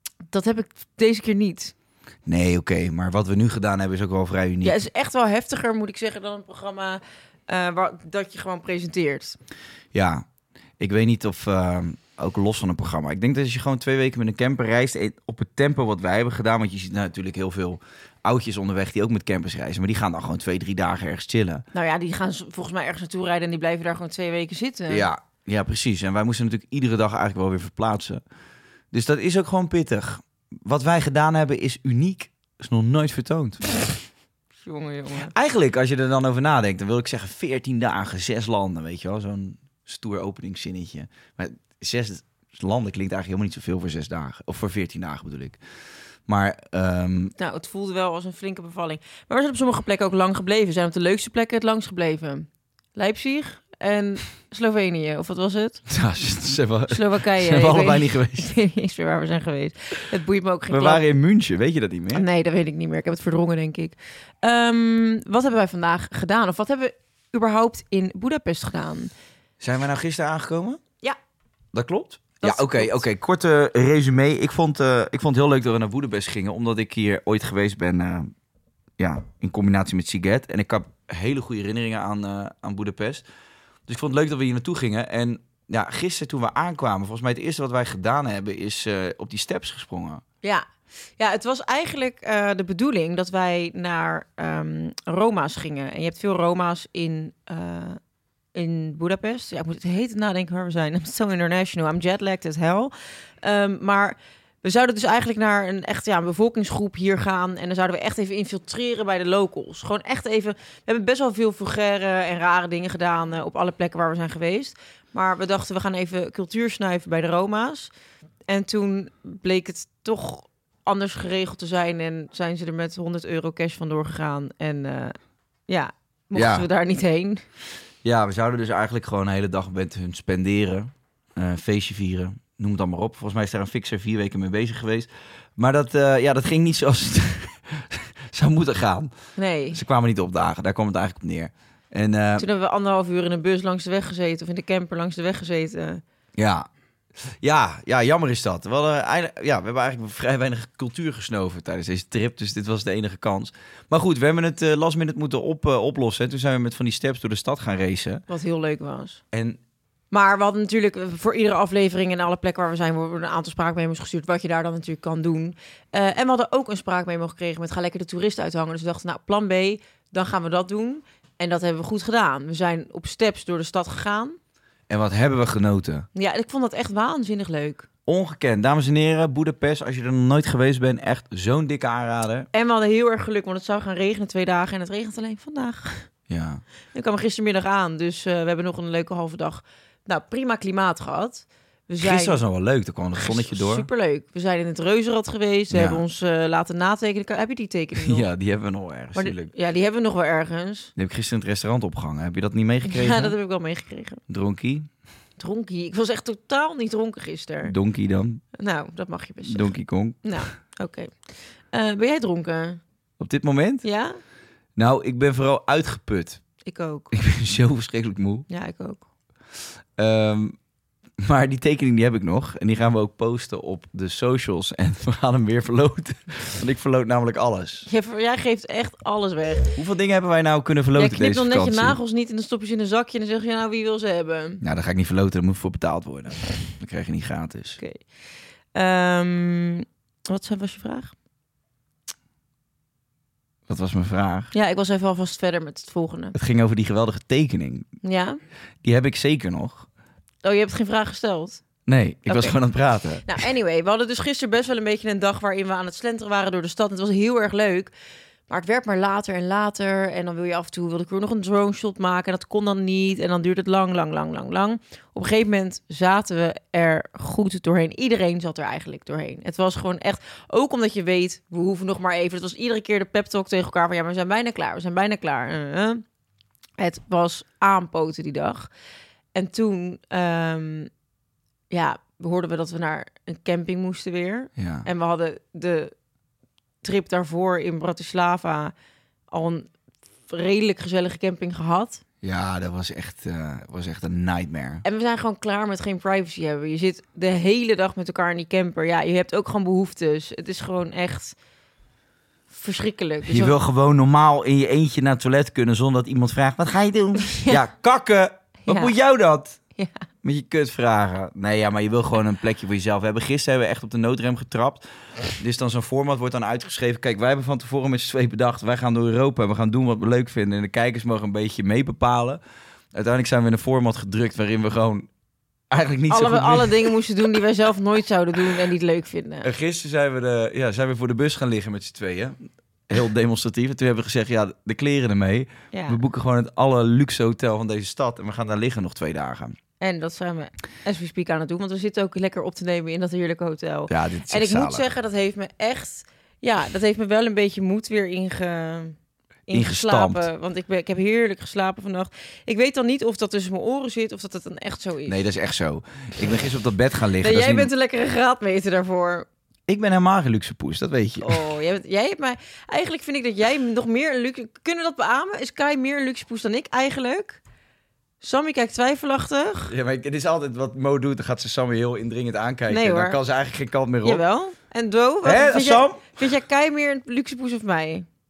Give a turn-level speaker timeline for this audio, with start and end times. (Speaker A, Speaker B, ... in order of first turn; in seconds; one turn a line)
Speaker A: 0.3-1.7
Speaker B: 2.2-4.8
Speaker A: 4.6-9.4
Speaker B: 9.9-10.2
Speaker B: 10.8-21.6
Speaker A: 21.7-25.1
Speaker B: 24.9-28.2
Speaker B: 28.9-33.7
Speaker A: 34.6-35.3
Speaker B: 35.3-45.6
Speaker B: 46.3-47.3
Speaker A: 47.4-55.8
Speaker B: 55.9-58.5
Speaker A: 56.9-61.0
Speaker B: 60.7-62.2
Speaker A: 62.1-69.1
Speaker B: 69.6-70.8
Speaker B: 71.7-78.3
Speaker A: 72.4-73.0
Speaker B: 79.0-83.2
Speaker B: 83.9-90.2
Speaker A: 91.2-98.0
Speaker A: 98.5-117.9
Speaker A: 118.5-125.2
Speaker A: 125.7-127.4
Speaker B: 126.3-126.7
Speaker B: 128.0-139.1
Speaker A: 139.4-139.8
Speaker B: 139.7-142.5
Speaker A: 142.4-146.0
Speaker B: 146.4-146.7
Speaker B: 147.2-158.2
Speaker A: 158.3-159.2
Speaker B: 159.3-159.6
Speaker A: 160.1-174.4
Speaker B: 174.9-176.1
Speaker A: 176.1-177.9
Speaker B: 178.1-182.5
Speaker A: 182.5-186.1
Speaker B: 186.3-186.6
Speaker A: 186.9-192.4
Speaker B: 192.0-193.9
Speaker A: 193.1-198.3
Speaker B: 195.7-196.0
Speaker B: 197.9-199.5
Speaker A: 199.1-200.9
Speaker B: 200.9-203.3
Speaker A: 202.9-204.2
Speaker B: 204.3-204.9
Speaker A: 205.4-207.7
Speaker B: 207.6-208.4
Speaker A: 208.6-211.1
Speaker B: 209.4-210.2
Speaker A: 211.7-212.8
Speaker B: 213.2-213.8
Speaker A: 213.8-214.2
Speaker B: 214.8-216.4
Speaker A: 216.6-217.1
Speaker B: 217.1-218.5
Speaker A: 218.5-219.1
Speaker B: 220.0-220.6
Speaker B: 221.2-227.9
Speaker A: 227.9-229.7
Speaker B: 229.8-232.0
Speaker A: 230.9-234.6
Speaker B: 234.6-237.8
Speaker A: 238.7-241.1
Speaker B: 243.7-244.5
Speaker A: 244.5-246.3
Speaker B: 246.3-247.9
Speaker A: 248.0-248.4
Speaker B: 248.8-249.9
Speaker A: 250.4-251.6
Speaker B: 251.9-253.3
Speaker A: 252.2-252.6
Speaker A: 253.2-257.9
Speaker A: 258.5-276.0
Speaker A: 276.8-278.7
Speaker A: 279.3-280.9
Speaker A: 281.7-285.9
Speaker B: 284.6-284.9
Speaker A: 286.8-288.7
Speaker A: 289.3-289.7
Speaker A: 290.3-292.0
Speaker B: 292.2-294.8
Speaker A: 294.8-301.4
Speaker A: 302.5-303.6
Speaker B: 303.2-309.6
Speaker A: 307.2-307.6
Speaker A: 308.6-308.9
Speaker A: 309.8-310.1
Speaker B: 310.2-322.4
Speaker B: 322.9-325.1
Speaker B: 325.7-327.0
Speaker A: 326.1-329.5
Speaker B: 329.4-332.4
Speaker B: 332.9-339.6
Speaker A: 335.7-336.0
Speaker A: 339.8-349.0
Speaker B: 343.9-344.8
Speaker A: 349.5-355.2
Speaker B: 349.5-350.2
Speaker B: 355.1-357.7
Speaker A: 357.2-359.3
Speaker B: 359.7-361.4
Speaker A: 361.2-367.4
Speaker A: 368.2-369.7
Speaker B: 369.7-374.2
Speaker A: 372.7-373.2
Speaker A: 374.0-378.1
Speaker B: 375.2-376.1